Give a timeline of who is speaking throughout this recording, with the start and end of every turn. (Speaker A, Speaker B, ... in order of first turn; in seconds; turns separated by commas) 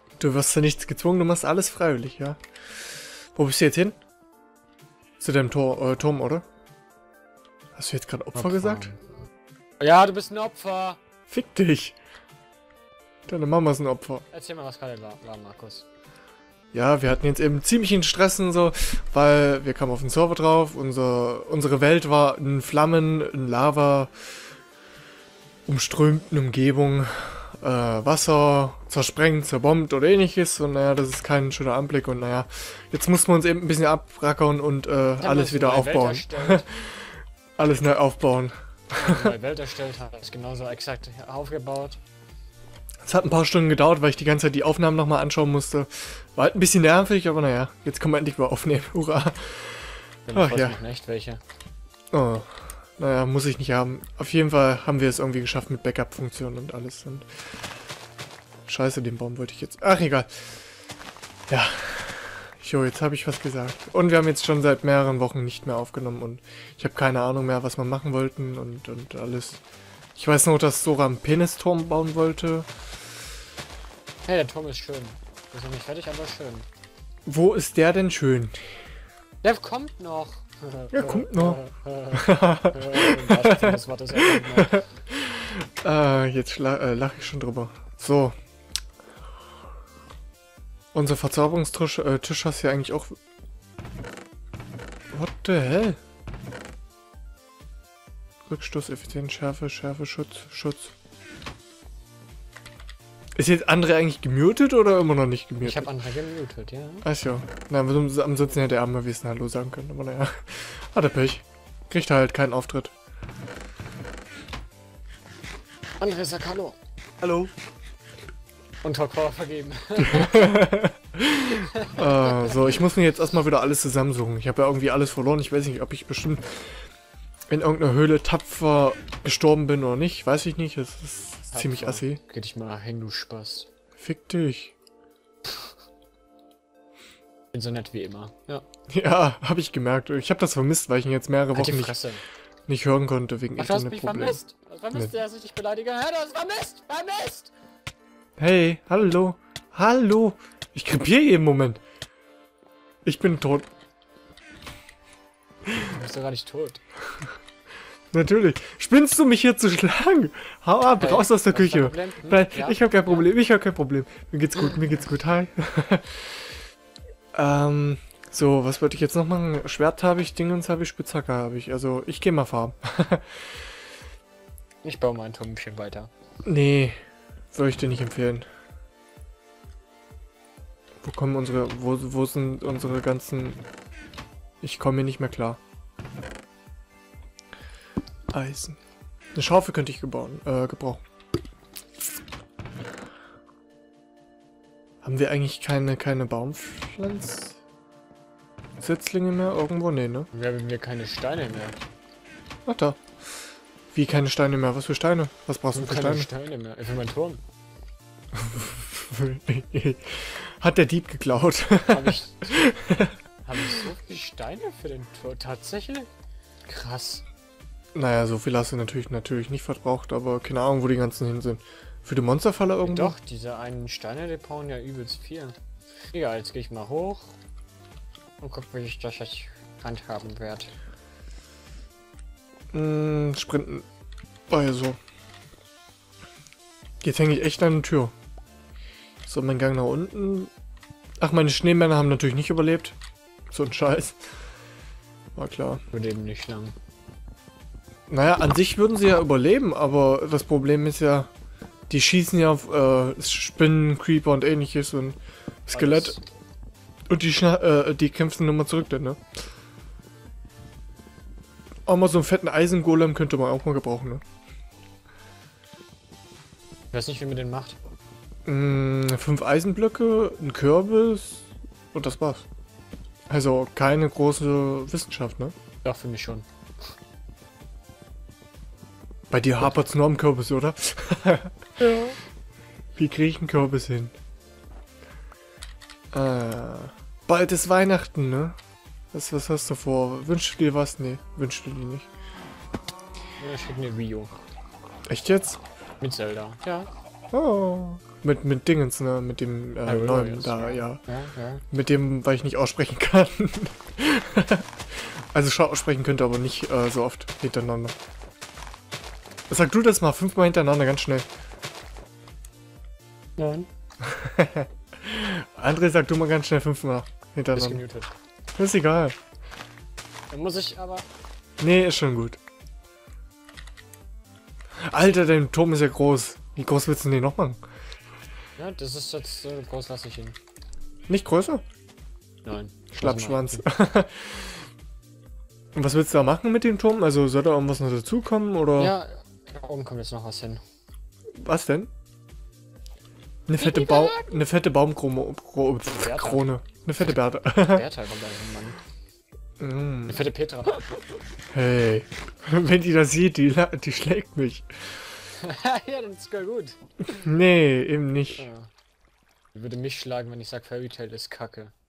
Speaker A: 0.2-2.4, Speaker A: 3.3-4.0, Speaker A: 5.2-6.5, Speaker A: 7.7-8.9, Speaker B: 8.3-9.0, Speaker B: 9.8-11.0, Speaker A: 11.3-12.0, Speaker A: 13.3-14.2, Speaker B: 14.3-15.9, Speaker A: 16.7-24.1, Speaker A: 25.6-39.4, Speaker B: 35.2-36.7, Speaker B: 38.9-42.0, Speaker A: 43.0-50.8, Speaker B: 50.3-51.4, Speaker A: 52.1-57.3, Speaker A: 58.7-60.5, Speaker A: 61.5-69.6, Speaker A: 70.2-72.7, Speaker B: 74.2-76.7, Speaker A: 77.2-78.8, Speaker B: 79.4-84.8, Speaker A: 80.9-81.6, Speaker A: 82.1-88.3, Speaker A: 90.9-93.2, Speaker A: 95.1-96.0, Speaker A: 98.5-100.9, Speaker A: 103.4-105.9, Speaker B: 105.6-107.0, Speaker A: 107.0-112.9, Speaker B: 116.0-116.8, Speaker A: 117.2-117.5, Speaker B: 118.8-120.7, Speaker A: 120.0-126.8, Speaker B: 121.5-122.5, Speaker A: 127.5-132.2, Speaker B: 131.5-133.7, Speaker A: 134.0-134.7, Speaker B: 137.5-138.6, Speaker A: 138.9-141.9, Speaker B: 141.5-142.2, Speaker A: 142.7-144.4, Speaker B: 143.6-147.5, Speaker A: 148.4-151.8, Speaker A: 153.0-153.7, Speaker B: 155.8-156.8, Speaker A: 158.1-166.5, Speaker B: 161.0-163.3, Speaker A: 167.3-173.5, Speaker B: 174.8-176.1, Speaker A: 176.4-176.9, Speaker A: 177.5-178.4, Speaker A: 181.0-183.6, Speaker A: 184.6-185.6, Speaker A: 188.3-188.8, Speaker A: 189.3-191.0, Speaker A: 195.0-197.6, Speaker A: 198.8-200.3, Speaker B: 200.3-201.8, Speaker A: 202.7-203.1, Speaker A: 203.9-206.3, Speaker B: 205.7-207.4, Speaker A: 208.3-213.8, Speaker B: 211.9-212.7, Speaker B: 213.4-216.1, Speaker B: 216.7-217.2, Speaker A: 217.9-223.1, Speaker B: 222.8-225.5, Speaker B: 226.1-227.3, Speaker B: 228.4-230.7, Speaker A: 232.7-233.8, Speaker A: 234.5-235.0, Speaker A: 237.0-238.1, Speaker A: 239.2-240.5, Speaker A: 241.2-243.0, Speaker A: 243.5-244.2, Speaker A: 245.3-245.8, Speaker B: 245.9-246.7, Speaker A: 248.1-251.3, Speaker A: 251.9-256.2, Speaker B: 255.7-256.2, Speaker A: 257.1-259.2, Speaker A: 261.9-264.2, Speaker B: 266.9-267.8, Speaker A: 268.4-272.4, Speaker A: 273.3-275.5, Speaker B: 275.8-276.4, Speaker A: 279.3-281.6, Speaker B: 281.8-282.2, Speaker A: 282.9-284.1, Speaker A: 286.1-288.6, Speaker A: 289.1-292.1, Speaker B: 293.4-294.4, Speaker A: 295.1-295.6, Speaker B: 296.0-296.9, Speaker A: 297.3-301.0, Speaker B: 299.9-301.6, Speaker A: 301.7-307.9, Speaker A: 309.5-311.3, Speaker B: 313.4-313.7, Speaker A: 314.0-317.8, Speaker B: 317.5-318.1, Speaker A: 318.6-319.2, Speaker B: 320.3-321.1, Speaker A: 321.6-322.4, Speaker A: 324.9-327.6, Speaker B: 328.6-330.4, Speaker A: 331.1-331.6, Speaker B: 332.4-333.6, Speaker A: 332.9-334.6, Speaker A: 335.7-338.9, Speaker B: 338.8-340.6, Speaker A: 341.4-341.9, Speaker A: 343.5-347.9, Speaker B: 343.6-344.4, Speaker B: 345.9-346.4, Speaker B: 347.0-348.8, Speaker A: 349.6-350.2, Speaker B: 350.1-350.9, Speaker A: 351.5-355.1, Speaker B: 355.4-356.8, Speaker A: 357.1-358.5, Speaker B: 358.3-358.7, Speaker B: 359.5-361.7